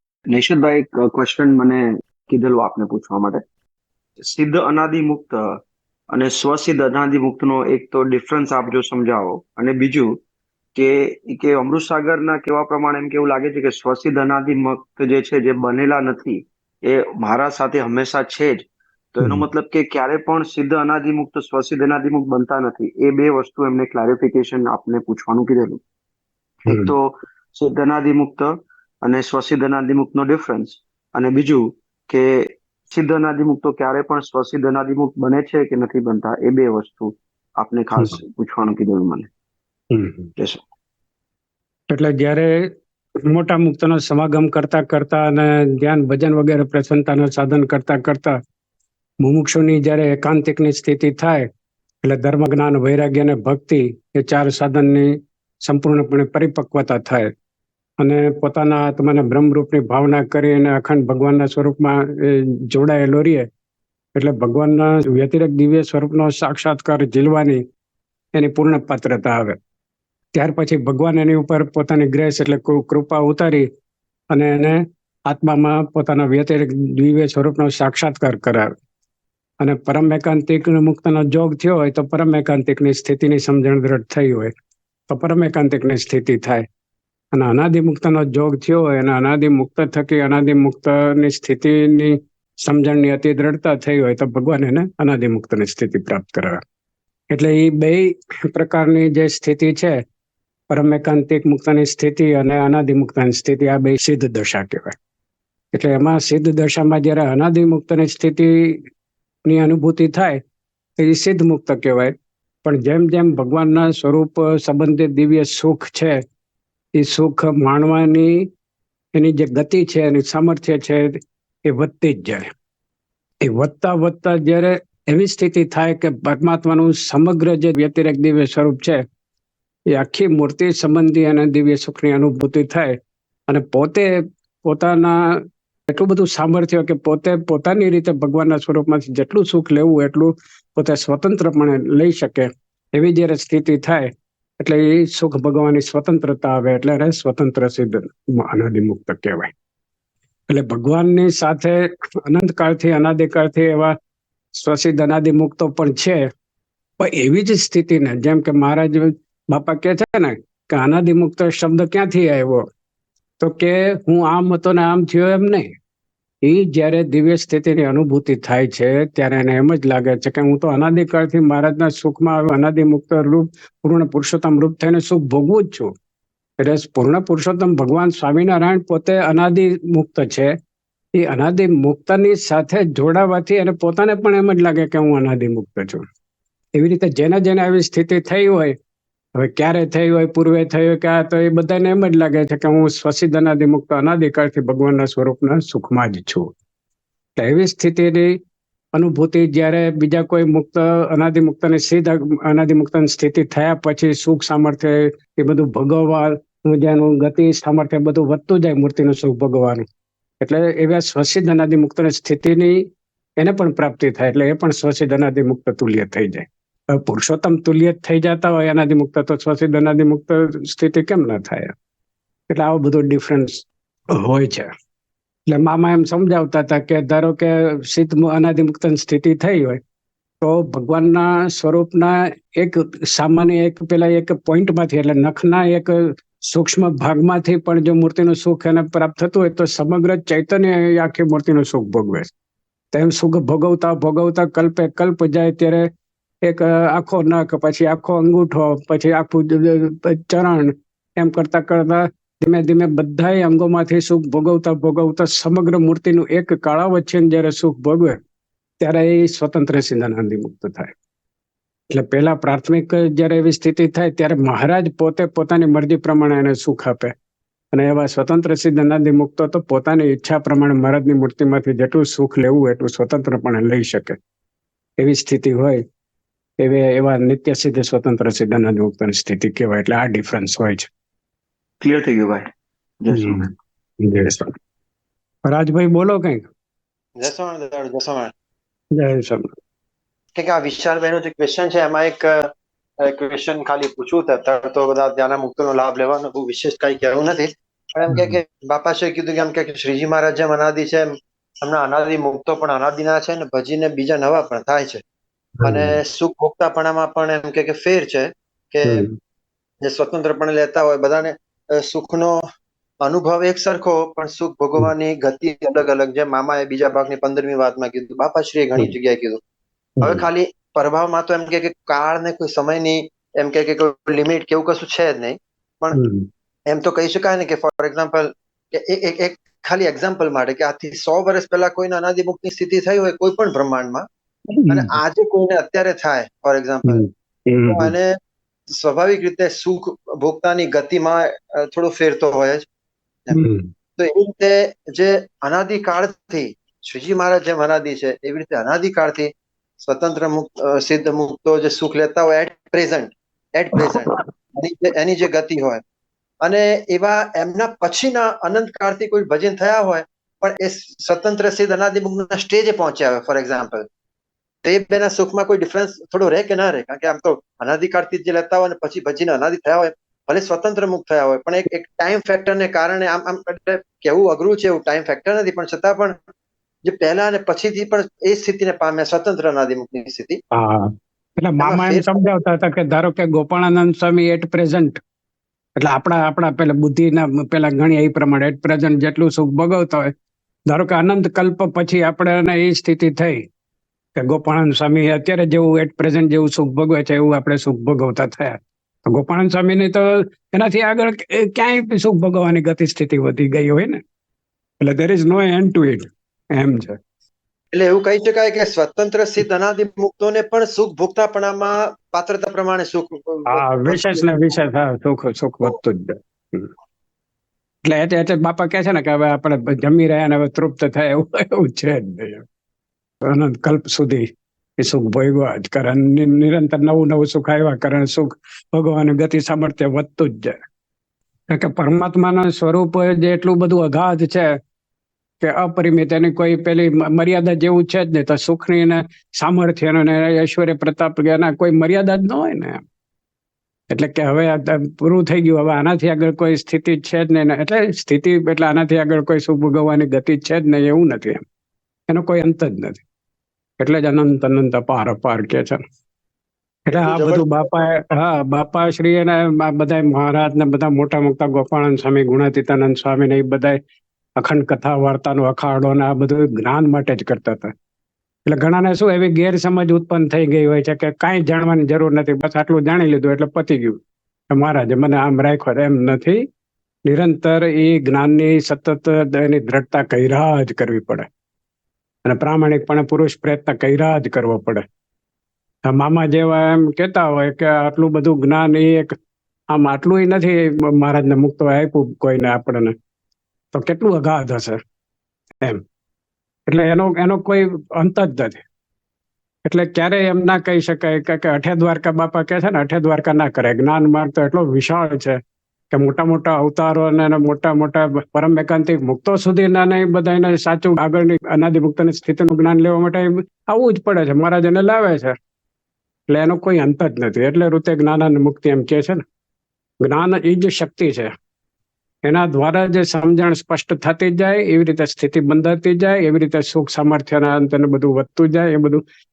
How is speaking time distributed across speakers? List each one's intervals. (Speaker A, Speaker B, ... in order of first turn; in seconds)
Speaker A: 0.3-3.4, 4.2-5.4, 6.1-10.2, 10.7-25.8, 26.6-39.3, 281.8-282.4, 283.0-283.5
Speaker B: 19.2-19.4, 26.7-26.9, 39.9-40.3, 41.9-42.7, 43.2-48.4, 49.2-51.5, 52.0-57.3, 58.0-63.5, 64.1-67.6, 68.3-69.6, 70.3-73.7, 74.3-78.7, 79.6-84.5, 85.1-86.7, 87.3-96.6, 97.3-100.0, 100.7-105.0, 105.7-108.8, 109.4-110.4, 111.0-112.1, 112.6-116.2, 116.9-118.5, 119.1-122.5, 123.4-129.0, 129.9-133.0, 133.5-149.5, 150.5-153.9, 154.5-156.3, 157.0-162.6, 163.4-165.7, 166.4-175.9, 176.6-180.5, 181.1-186.0, 186.7-188.7, 189.3-196.5, 197.3-198.4, 198.9-209.8, 210.4-212.9, 213.4-221.7, 222.5-224.7, 225.5-229.8, 230.4-242.3, 242.9-245.9, 246.4-258.2, 258.8-260.9, 261.9-267.1, 267.7-274.2, 275.0-275.8, 276.6-280.9, 283.1-283.5, 284.0-284.5, 285.4-286.5, 288.9-289.5, 298.1-298.4, 305.6-305.9, 308.8-309.1, 320.0-320.2, 325.9-326.3, 334.5-335.0, 336.9-337.9, 343.3-343.7, 380.5-385.0, 385.8-390.1, 390.7-393.4, 394.1-404.0, 404.8-407.0, 413.5-416.7, 417.8-422.4, 423.2-424.2, 424.8-430.6, 431.5-434.6, 435.4-442.8, 443.9-451.4, 452.1-453.0, 453.8-455.8, 456.9-463.8, 464.4-467.7, 468.4-474.0, 474.5-476.4, 477.1-481.3, 482.2-484.8, 485.8-489.1, 489.7-492.9, 493.7-494.8, 496.7-498.6, 499.6-505.4, 505.9-515.3, 516.3-519.2, 520.0-521.3, 522.2-529.0
Speaker C: 287.2-288.3, 290.4-292.4, 293.0-301.1, 301.6-305.0, 305.6-309.0, 309.8-312.3, 313.0-319.4, 320.0-326.0, 326.7-334.0, 334.7-337.0, 337.7-338.1, 338.7-342.6, 344.0-349.3, 349.8-355.8, 356.4-363.8, 364.6-376.1, 376.8-380.4, 381.6-382.1, 407.7-414.6, 456.9-457.7